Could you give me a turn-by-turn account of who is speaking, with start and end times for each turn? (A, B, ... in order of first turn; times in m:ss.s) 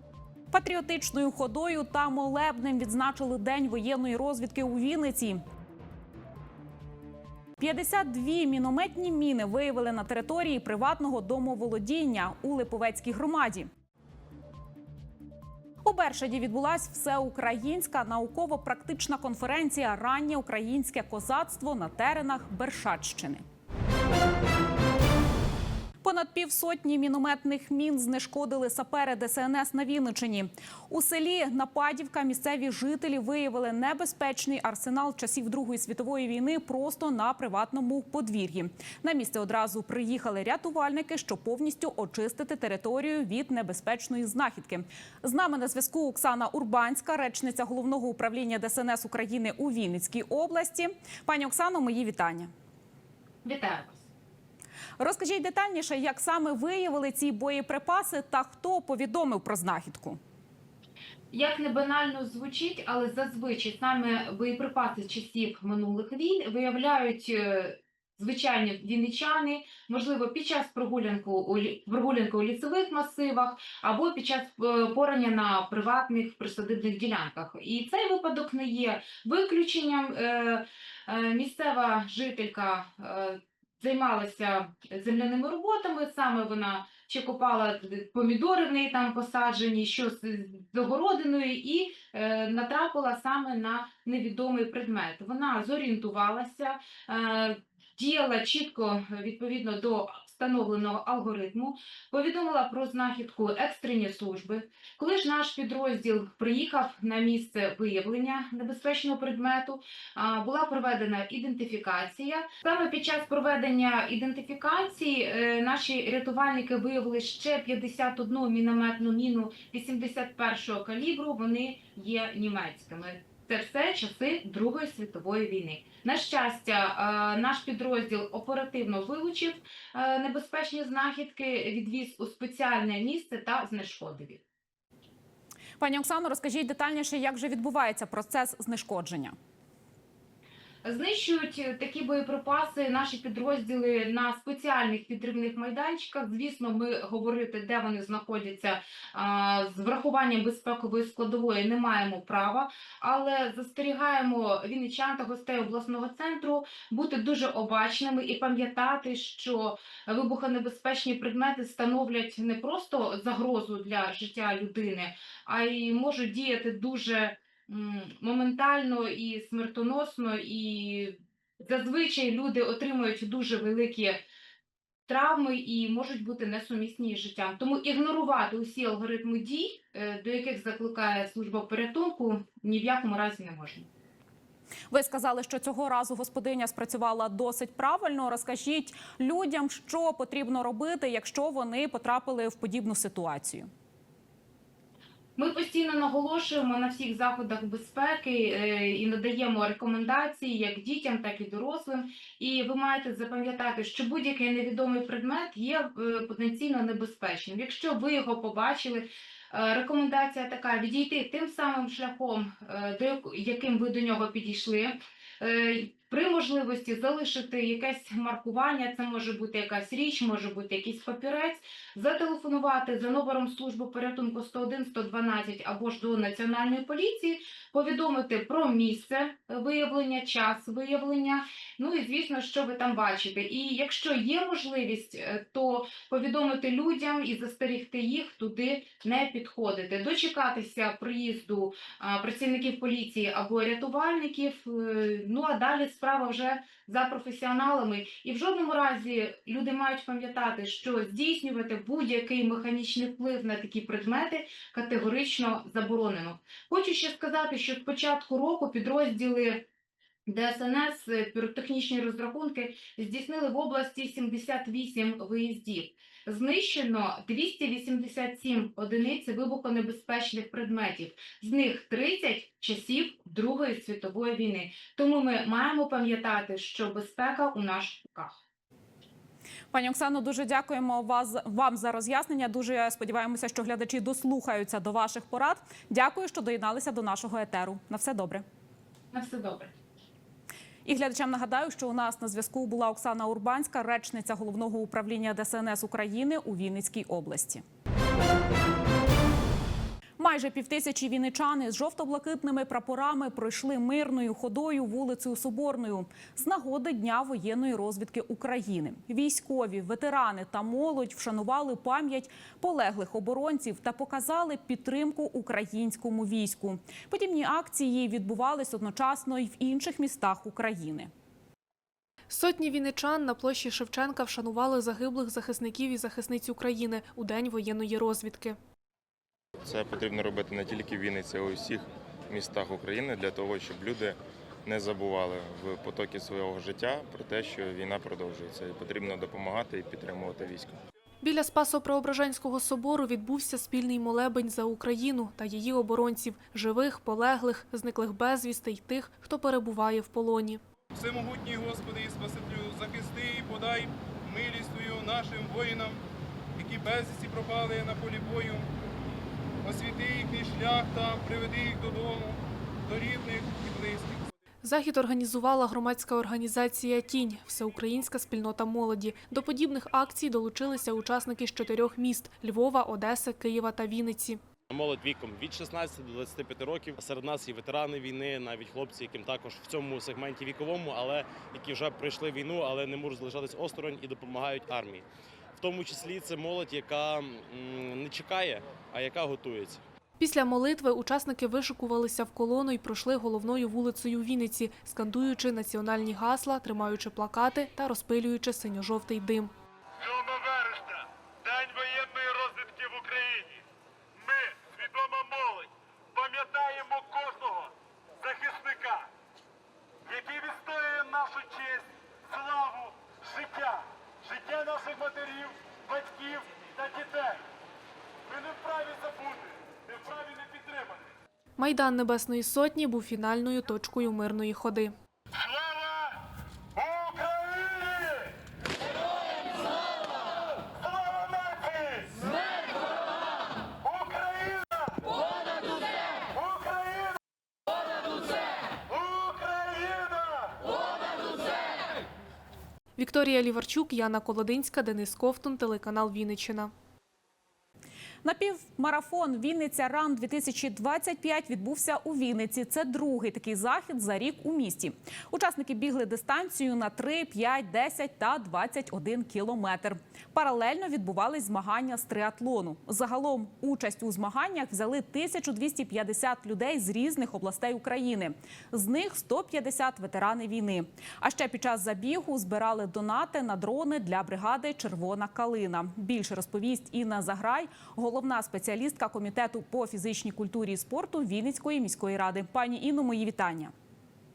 0:00.5-0:05.4 A
0:07.6-0:13.7 A
0:15.8-0:23.4 A
0:26.0-0:52.5 A
0:53.4-0:54.1 B
0:55.0-1:00.2 A
1:01.3-2:14.4 B
2:15.8-2:19.4 A
2:20.8-2:54.2 B
2:55.1-3:03.9 B
3:04.9-3:13.7 A
3:15.4-4:19.6 B
4:20.3-4:38.4 B
4:39.7-4:48.4 A
4:49.1-4:49.7 B
4:50.8-4:57.6 A
5:00.2-5:21.1 A
5:22.3-5:28.6 C
5:29.6-5:40.8 D
5:41.2-5:50.6 C
5:51.0-5:56.0 E
5:56.6-5:58.7 E
5:59.6-6:04.2 E
6:04.6-6:14.4 C
6:14.7-6:25.0 F
6:25.6-6:29.8 F
6:30.2-6:39.5 C
6:41.6-6:42.9 G
6:41.8-6:42.8 F
6:45.1-6:45.4 G
6:46.3-6:47.4 G
6:46.6-6:47.7 F
6:48.4-6:48.8 G
6:50.2-6:50.8 F
6:50.2-6:51.6 G
6:52.5-6:52.9 G
6:54.3-6:57.3 G
6:56.1-6:56.3 F
6:58.4-6:59.3 G
7:01.6-7:04.9 C
7:23.0-7:26.7 C
7:28.2-8:03.7 A